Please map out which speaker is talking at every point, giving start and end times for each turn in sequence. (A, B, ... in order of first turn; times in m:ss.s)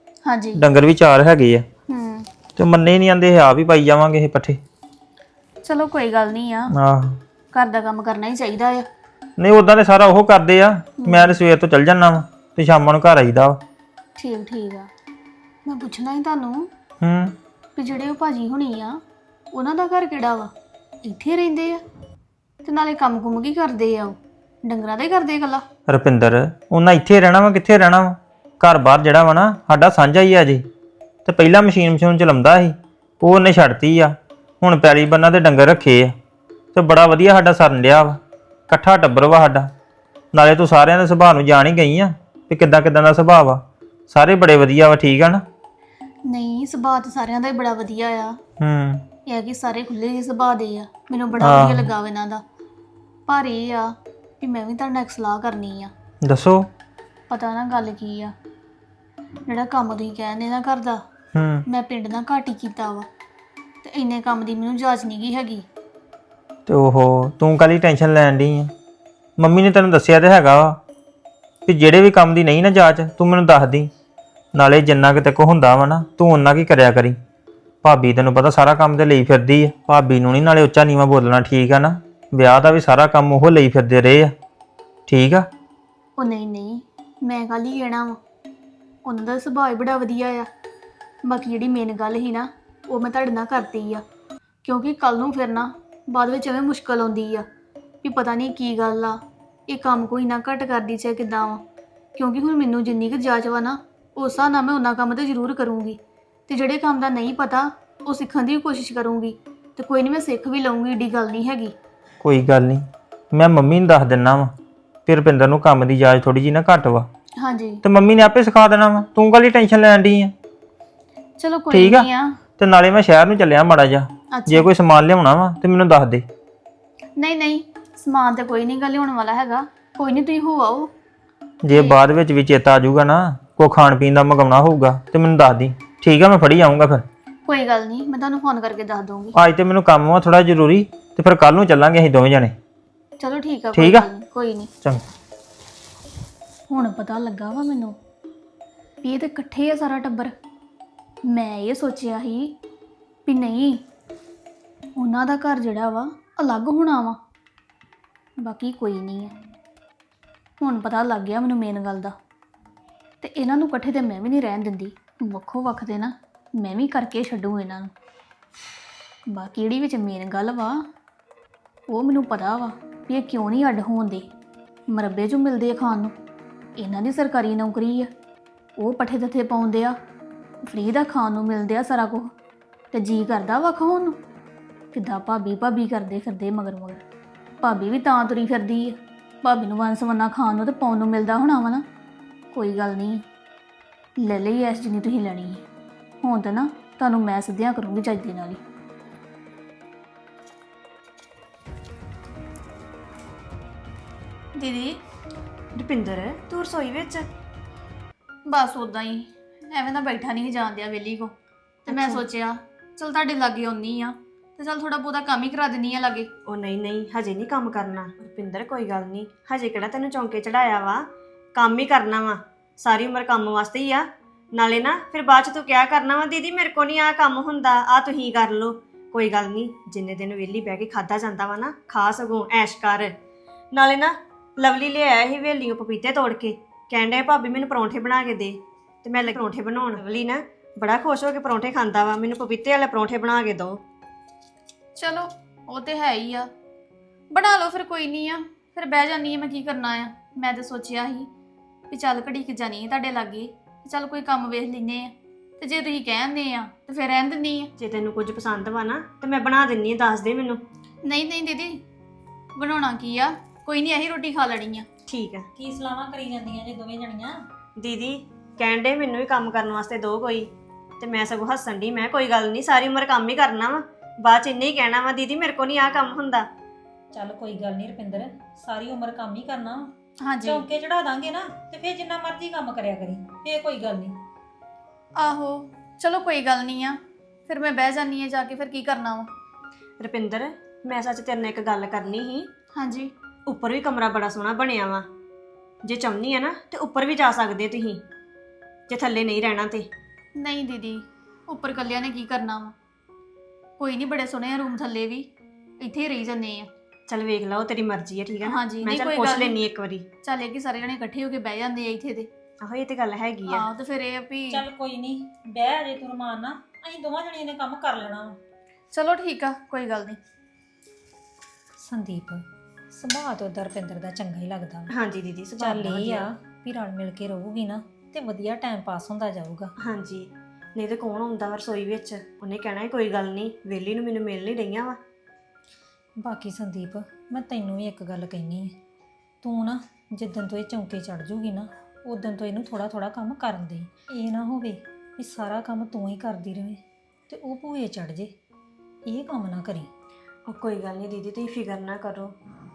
0:00.2-0:00.6 A
0:00.5-0:01.6 B
0:01.9-0:02.3 A
0:02.6-0:04.6 B
0:05.6-0:06.7 A
0:06.7-0:07.2 B
0:07.5-0:08.9 A
0:09.4-0:13.6 B
0:11.0-0:11.4 A
0:14.2-0:14.9 A
0:15.6-0:16.7 A
0:17.0-0:17.3 B
0:17.8-0:19.0 A
0:19.5-0:20.5 A
0:21.0-0:21.8 A
0:22.6-0:25.6 A
0:25.9-0:30.6 B
0:31.2-0:36.1 B
0:36.7-0:39.7 B
0:40.3-0:45.4 B
0:46.3-0:48.4 A
0:48.6-0:49.0 B
0:49.3-0:52.4 A
0:51.4-0:51.9 B
0:53.3-0:55.9 A
0:56.2-0:56.7 B
0:57.3-0:58.3 A
0:59.4-1:01.0 A
1:01.3-1:01.6 B
1:01.7-1:03.1 A
1:03.8-1:05.7 A
1:06.7-1:08.7 B
1:09.4-1:10.8 B
1:11.6-1:13.9 B
1:14.5-1:17.2 B
1:17.8-1:24.3 B
1:25.1-1:25.5 B
1:26.2-1:28.2 A
1:29.0-1:30.5 A
1:31.2-1:34.0 A
1:34.6-1:37.5 A
1:38.0-1:41.6 A
1:42.2-1:51.7 A
1:52.2-1:54.5 B
1:55.0-1:57.1 B
1:57.4-1:57.8 A
1:57.8-2:00.3 B
2:01.4-2:02.4 A
2:01.7-2:02.1 B
2:02.6-2:06.2 B
2:04.3-2:04.7 A
2:07.2-2:10.9 A
2:11.6-2:17.0 B
2:11.7-2:12.0 A
2:17.4-2:19.3 A
2:19.3-2:22.5 B
2:23.2-2:24.7 A
2:23.7-2:24.1 B
2:26.7-2:28.0 A
2:29.0-2:30.3 A
2:31.3-2:32.6 A
2:33.2-2:33.8 A
2:35.0-2:37.2 A
2:38.4-2:39.3 A
2:40.6-2:42.1 A
2:43.2-2:47.9 A
2:49.3-2:50.8 A
2:51.9-2:54.3 A
2:54.9-2:56.1 A
2:56.8-2:58.1 A
2:58.8-3:00.0 A
3:00.6-3:02.3 A
3:02.9-3:04.2 A
3:04.9-3:07.0 A
3:07.6-3:11.8 A
3:12.5-3:13.2 A
3:14.2-3:15.6 A
3:16.2-3:18.6 A
3:24.6-3:25.0 A
3:25.7-3:27.2 C
3:28.5-3:31.3 A
3:31.8-3:36.3 A
3:31.9-3:32.2 C
3:36.5-3:53.1 C
3:53.7-4:03.8 C
4:05.0-4:06.5 A
4:07.3-4:11.3 A
4:11.9-4:17.7 A
4:17.8-4:20.6 C
4:21.0-4:21.8 A
4:22.6-4:24.9 A
4:25.1-4:25.5 C
4:25.6-4:27.4 D
4:27.8-4:36.5 C
4:37.1-4:39.9 D
4:40.2-4:40.6 A
4:40.4-4:44.2 D
4:45.2-4:49.3 A
4:50.0-4:52.5 C
4:52.8-4:53.1 A
4:53.5-4:55.0 C
4:55.8-4:58.0 C
4:58.9-4:59.9 C
5:00.4-5:02.7 A
5:03.8-5:05.3 A
5:05.8-5:06.7 A
5:07.1-5:10.0 C
5:08.4-5:09.6 A
5:10.2-5:12.3 A
5:12.6-5:13.6 C
5:13.5-5:14.6 A
5:14.5-5:18.4 D
5:18.9-5:20.2 A
5:21.8-5:24.9 D
5:24.9-5:26.3 C
5:25.6-5:29.7 D
5:29.8-5:35.0 C
5:36.2-5:38.7 D
5:39.4-5:48.3 D
5:49.0-5:49.9 D
5:50.5-5:52.3 C